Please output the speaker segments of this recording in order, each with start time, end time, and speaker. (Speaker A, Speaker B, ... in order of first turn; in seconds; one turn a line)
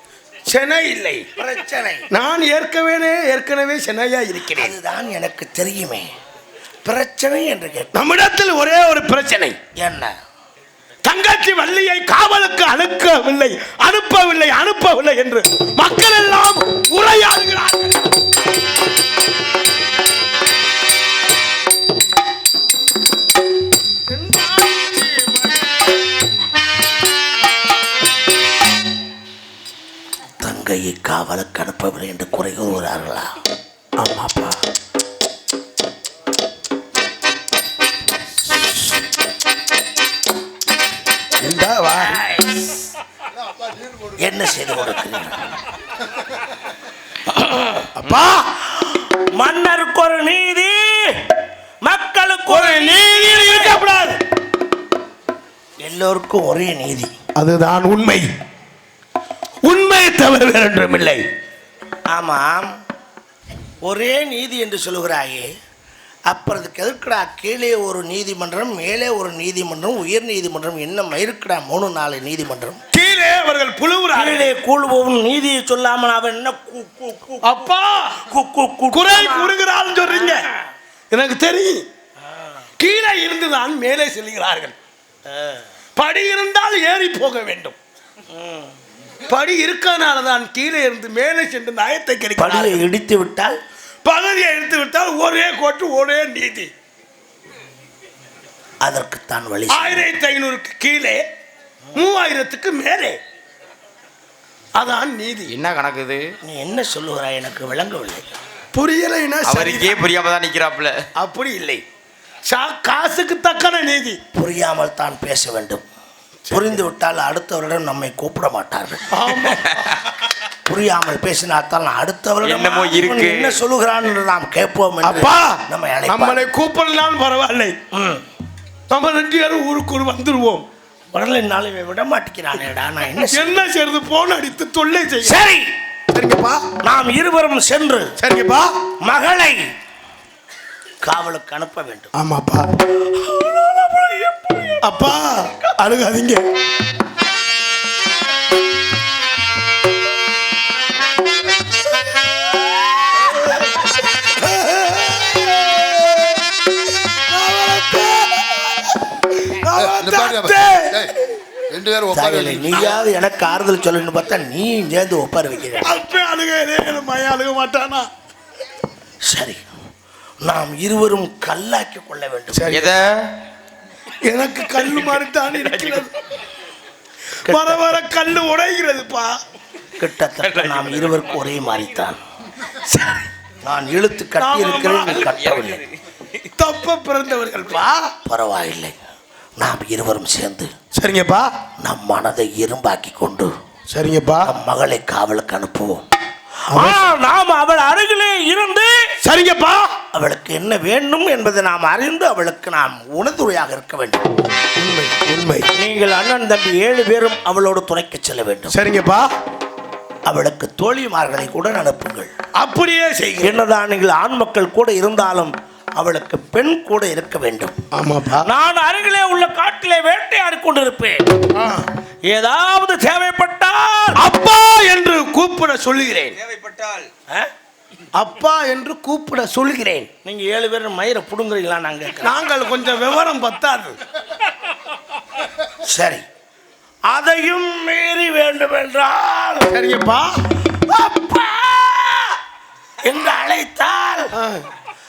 Speaker A: 0.5-1.2
Speaker B: 1.4-2.0
Speaker A: 2.1-4.7
Speaker B: 4.5-6.1
Speaker B: 6.8-8.0
Speaker A: 7.9-9.6
Speaker B: 9.8-10.1
Speaker A: 11.0-18.0
Speaker A: 24.1-25.4
Speaker B: 30.4-33.3
Speaker A: 34.0-34.6
Speaker A: 41.4-42.1
Speaker B: 42.1-42.6
Speaker B: 44.2-45.4
Speaker B: 47.3-47.9
Speaker A: 48.0-48.6
Speaker B: 49.4-51.2
Speaker B: 51.8-53.8
Speaker A: 52.5-54.2
Speaker B: 55.8-57.1
Speaker A: 57.4-58.2
Speaker A: 59.6-61.2
Speaker B: 62.1-62.7
Speaker B: 63.8-65.5
Speaker B: 66.3-72.8
Speaker A: 72.9-74.5
Speaker B: 74.2-77.6
Speaker A: 77.5-78.2
Speaker B: 78.3-79.5
Speaker A: 78.9-80.4
Speaker B: 80.1-80.5
Speaker A: 81.1-81.8
Speaker B: 82.2-82.7
Speaker A: 82.8-84.8
Speaker B: 85.3-85.6
Speaker A: 86.0-87.8
Speaker B: 88.3-88.7
Speaker A: 89.3-92.8
Speaker B: 92.4-93.5
Speaker A: 94.0-96.7
Speaker B: 98.8-100.0
Speaker A: 99.7-101.2
Speaker A: 101.9-103.2
Speaker A: 104.8-105.5
Speaker C: 105.5-106.3
Speaker B: 106.4-108.2
Speaker A: 108.7-110.0
Speaker C: 109.4-111.0
Speaker A: 111.2-111.8
Speaker A: 112.5-114.2
Speaker B: 114.3-115.8
Speaker B: 116.5-119.6
Speaker A: 119.1-120.0
Speaker B: 120.7-126.5
Speaker C: 122.4-123.6
Speaker A: 125.0-127.7
Speaker B: 127.9-128.2
Speaker A: 128.9-130.7
Speaker B: 131.1-133.6
Speaker A: 133.3-135.4
Speaker B: 135.2-135.7
Speaker A: 136.1-136.6
Speaker B: 136.8-138.0
Speaker A: 138.2-138.7
Speaker B: 139.0-139.6
Speaker B: 141.0-142.1
Speaker A: 142.1-142.7
Speaker B: 143.1-144.8
Speaker A: 144.8-146.4
Speaker A: 154.2-156.2
Speaker A: 157.3-161.1
Speaker B: 162.1-165.9
Speaker A: 165.8-168.1
Speaker B: 169.3-169.6
Speaker B: 170.4-172.7
Speaker A: 172.5-172.9
Speaker C: 172.7-173.3
Speaker A: 174.2-176.1
Speaker C: 175.7-176.0
Speaker B: 177.5-177.9
Speaker A: 177.5-179.4
Speaker B: 180.0-182.2
Speaker C: 180.6-181.0
Speaker A: 182.8-183.3
Speaker B: 183.6-185.8
Speaker A: 184.4-185.3
Speaker C: 185.2-185.8
Speaker A: 186.6-188.1
Speaker B: 188.2-188.9
Speaker B: 189.6-190.7
Speaker A: 190.9-191.5
Speaker B: 191.8-193.5
Speaker A: 193.9-194.5
Speaker B: 194.4-196.0
Speaker A: 196.7-197.0
Speaker B: 196.7-199.0
Speaker A: 199.2-199.9
Speaker B: 200.1-204.2
Speaker A: 204.8-205.7
Speaker B: 205.8-208.7
Speaker A: 208.7-209.3
Speaker B: 210.3-212.3
Speaker A: 212.6-213.6
Speaker B: 213.4-217.8
Speaker A: 217.9-218.4
Speaker B: 218.4-221.2
Speaker A: 221.6-221.9
Speaker B: 222.3-224.2
Speaker A: 224.2-226.4
Speaker C: 226.4-227.0
Speaker A: 228.2-230.1
Speaker B: 230.2-232.4
Speaker A: 232.2-234.0
Speaker B: 235.9-236.2
Speaker B: 237.1-239.7
Speaker A: 239.7-240.4
Speaker B: 240.7-242.3
Speaker B: 243.0-244.3
Speaker A: 244.4-244.7